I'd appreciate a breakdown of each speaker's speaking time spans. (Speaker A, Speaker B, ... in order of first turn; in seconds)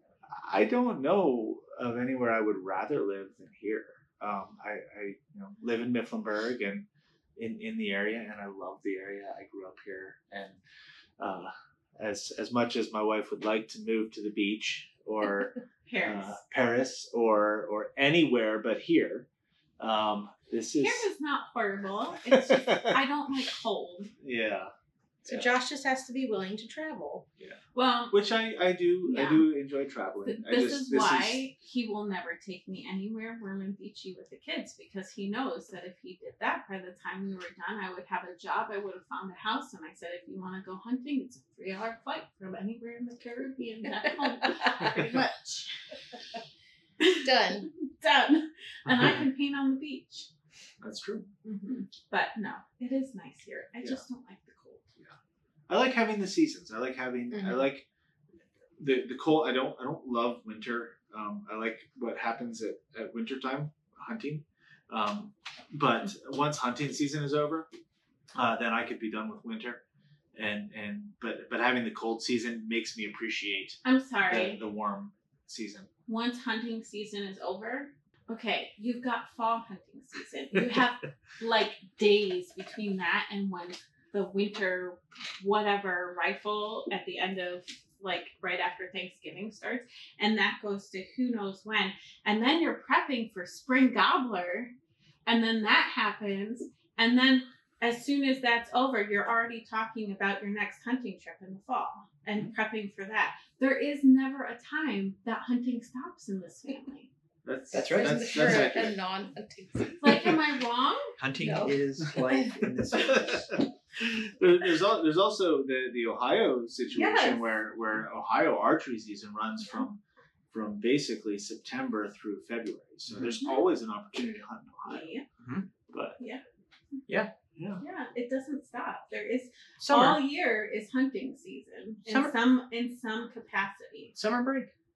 Speaker A: 0.4-10.6, 11.2-19.3, 19.8-21.1, 22.3-23.0, 24.2-24.7, 25.3-25.5, 28.1-31.4, 44.8-45.1, 48.9-49.2, 50.8-51.3, 55.7-57.9, 58.8-67.7, 68.3-69.8, 70.3-75.9, 107.4-109.0, 112.9-120.0, 120.5-125.1, 125.9-126.2, 127.6-127.8
Speaker B: 15.8-16.4, 20.8-24.1, 27.7-28.1, 29.1-29.5, 30.2-45.7, 47.0-50.3, 51.4-54.9, 73.8-74.6, 76.1-94.7, 95.2-107.1, 110.0-111.1, 116.9-117.4, 124.8-125.2, 127.8-134.1
Speaker C: 25.2-27.2, 47.2-47.7, 57.3-57.7, 107.7-110.3, 111.4-111.7
Speaker D: 107.7-108.8, 111.2-113.5, 125.4-125.7, 129.8-130.2, 132.1-132.3, 134.1-134.7